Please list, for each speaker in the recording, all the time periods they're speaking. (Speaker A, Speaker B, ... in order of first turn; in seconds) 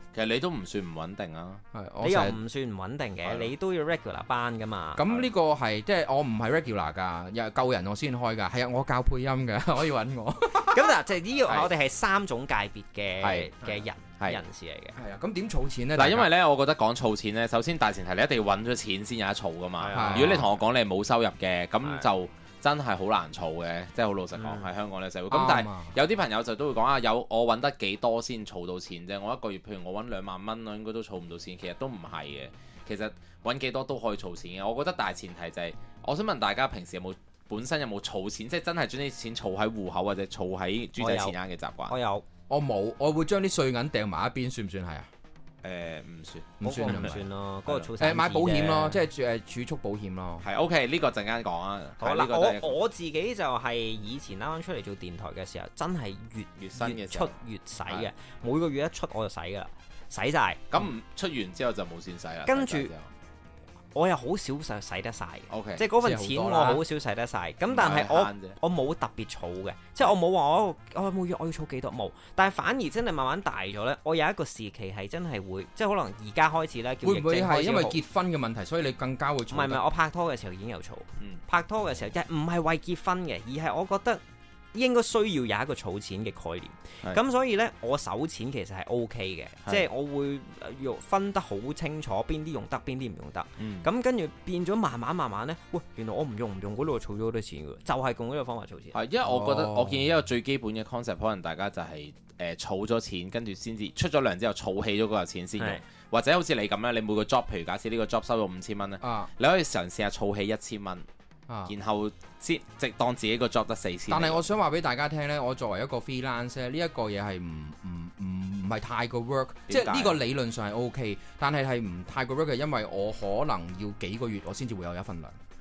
Speaker A: 0.1-1.6, 3.2-3.5, 13.2-13.7, 15.9-41.9, 45.6-47.9, 50.4-52.8, 56.6-57.4, 60.7-63.1, 65.5-65.8, 67.7-68.6, 93.6-93.8, 98.9-111.0, 111.7-114.4, 119.7-120.2
Speaker B: 1.7-2.4, 5.0-10.9, 14.9-16.3, 19.9-20.4, 25.3-25.9, 42.5-45.1, 46.6-47.2, 48.0-50.5, 66.0-66.8, 77.0-79.8, 99.2-100.0, 109.0-109.3, 114.1-125.4
Speaker C: 2.0-5.0, 10.6-14.9, 19.8-20.4, 24.4-24.7, 41.0-41.3, 41.9-42.2, 46.6-49.0, 52.0-60.6, 62.5-62.9, 63.9-78.0, 79.5-84.2, 84.7-99.0